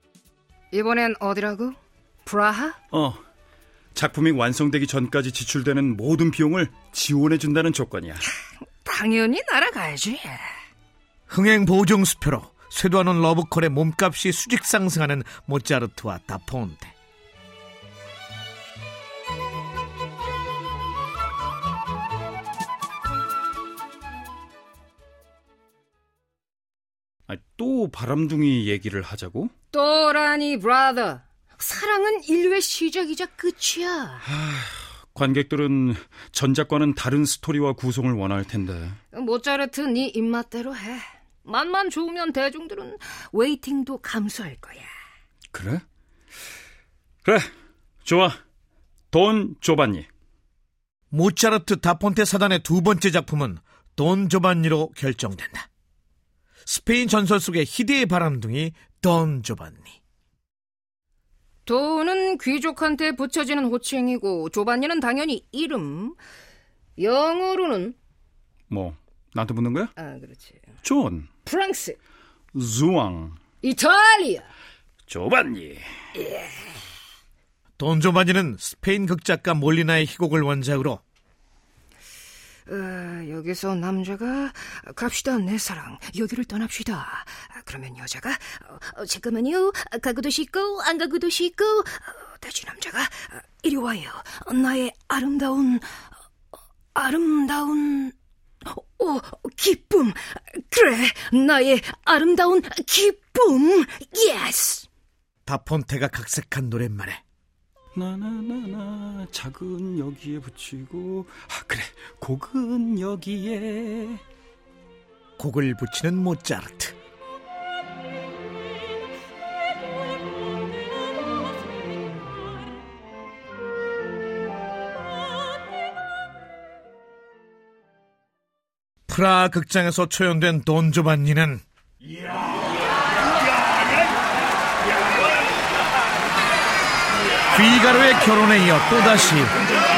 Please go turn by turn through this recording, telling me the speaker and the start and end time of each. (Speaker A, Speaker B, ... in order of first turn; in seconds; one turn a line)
Speaker A: 0.7-2.8
Speaker B: 2.9-3.2
Speaker B: 3.9-8.3
Speaker A: 8.8-10.5
Speaker C: 11.3-16.9
Speaker B: 27.3-29.5
Speaker A: 29.7-34.2
Speaker B: 34.4-39.0
Speaker A: 39.1-44.9
Speaker B: 45.5-45.8
Speaker B: 48.0-48.4
Speaker B: 49.1-50.0
Speaker C: 51.1-55.7
Speaker C: 56.6-60.0
Speaker A: 61.6-66.2
Speaker A: 67.0-67.9
Speaker B: 68.7-69.9
Speaker A: 70.0-70.6
Speaker B: 70.8-71.3
Speaker A: 71.4-72.0
Speaker B: 72.5-73.4
Speaker A: 73.6-74.5
Speaker B: 75.1-75.8
Speaker A: 76.2-76.6
Speaker C: 77.8-81.0
Speaker A: 82.7-95.8
Speaker A: 96.9-98.1
Speaker A: 98.7-104.9
Speaker C: 105.5-107.2
Speaker B: 107.9-114.2
Speaker C: 115.4-116.9
Speaker C: 129.1-131.6
Speaker C: 137.5-139.5